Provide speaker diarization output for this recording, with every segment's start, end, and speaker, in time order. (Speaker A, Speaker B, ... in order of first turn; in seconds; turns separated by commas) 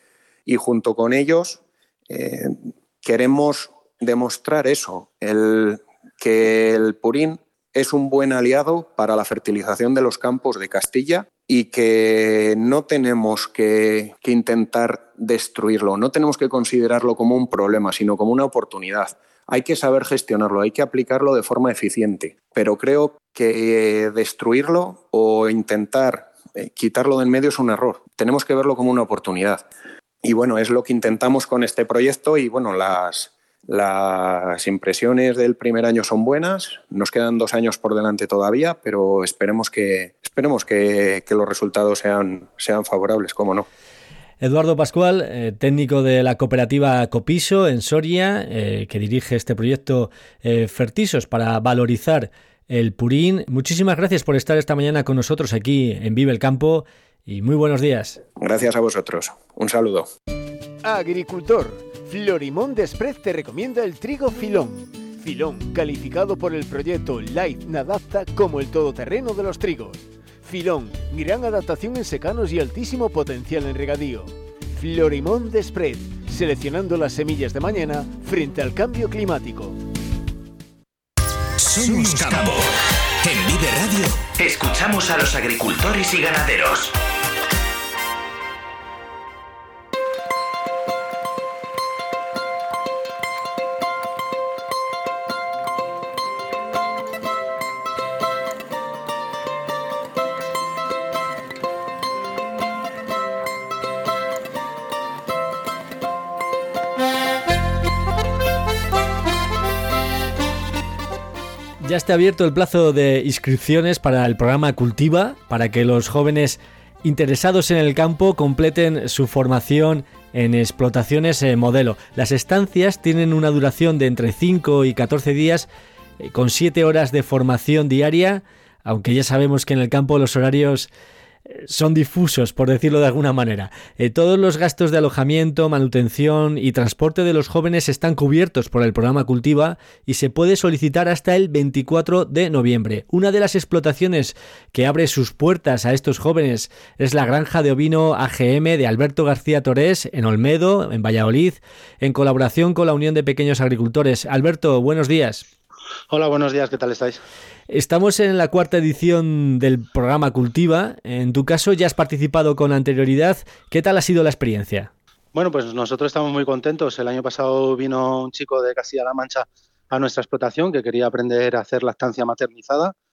Speaker A: 0.5-29.7, Speaker A: 30.2-43.7, Speaker B: 44.4-58.2, Speaker A: 58.4-60.1, Speaker C: 60.8-79.8, Speaker D: 81.6-87.0, Speaker B: 111.8-125.7, Speaker B: 126.2-130.9, Speaker B: 131.5-155.4, Speaker E: 156.1-157.2, Speaker B: 157.7-164.9, Speaker E: 165.3-172.9